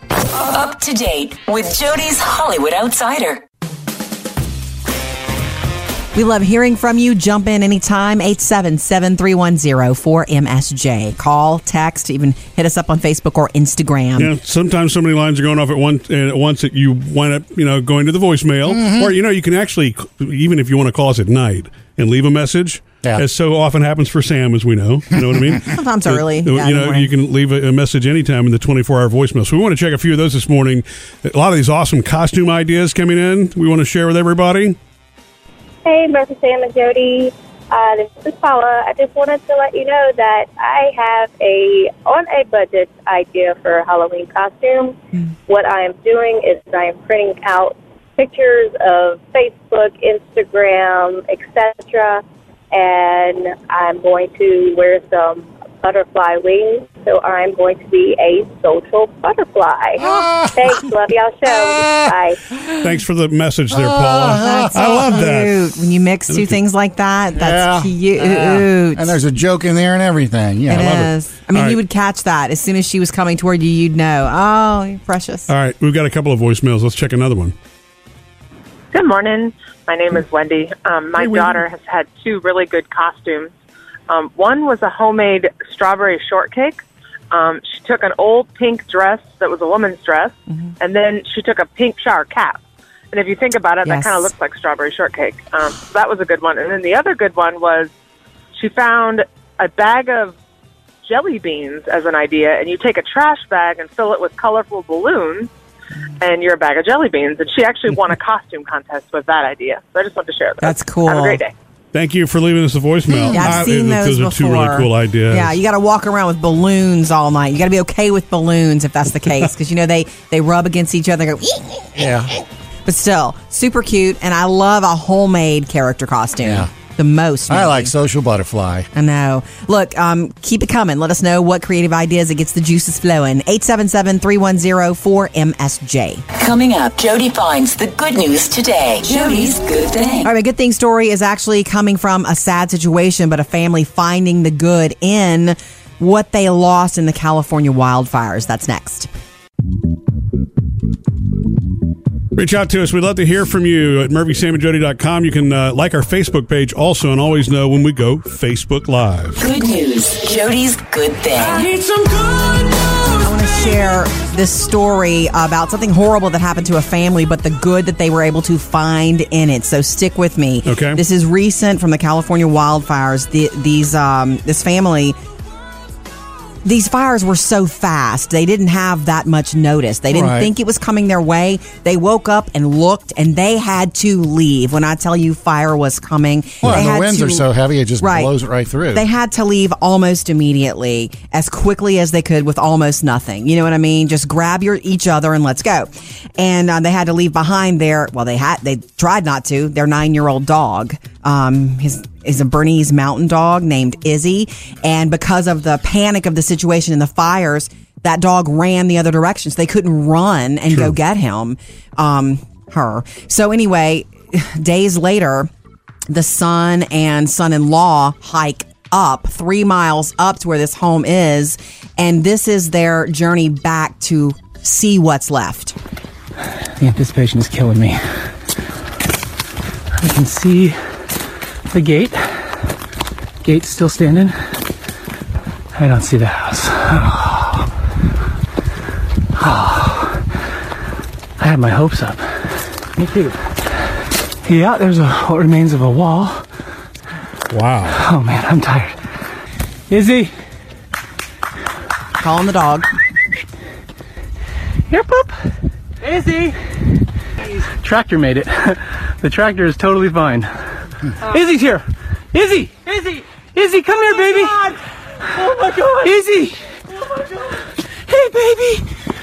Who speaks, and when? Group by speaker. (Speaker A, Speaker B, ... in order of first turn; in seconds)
Speaker A: 0.3-3.4, 136.3-140.3, 159.4-161.7
Speaker B: 6.1-14.3, 25.6-27.1, 64.4-69.2, 70.7-75.5, 93.8-94.3, 110.6-111.4, 113.3-122.0, 122.8-127.9, 128.9-136.2, 140.2-149.1, 163.2-175.2, 176.6-187.5, 188.0-188.3, 188.9-215.5, 216.1-225.8, 252.2-252.9
Speaker C: 14.2-34.8, 62.8-65.7, 70.8-71.8, 75.5-77.5, 81.2-81.6, 111.9-115.6, 152.3-159.4, 170.7-171.0, 247.5-248.0
Speaker D: 18.7-19.1, 60.0-60.8, 61.5-62.8, 63.7-65.2, 67.3-71.1, 113.1-113.6, 122.0-122.3, 126.4-126.7, 127.5-128.9, 180.1-180.5, 186.6-189.0
Speaker E: 35.8-62.4
Speaker F: 78.9-83.5, 84.1-92.6, 93.1-97.9, 98.5-100.3, 101.0-105.5, 106.2-111.5
Speaker G: 226.8-228.0, 230.0-230.8, 231.7-232.4, 233.4-234.4, 235.8-237.7, 239.3-240.2, 241.4-242.3, 242.9-243.4, 244.4-246.4, 247.9-248.9, 249.9-250.3, 254.9-255.4, 256.0-256.6, 257.6-260.5, 261.2-264.8, 265.3-266.6, 268.1-268.9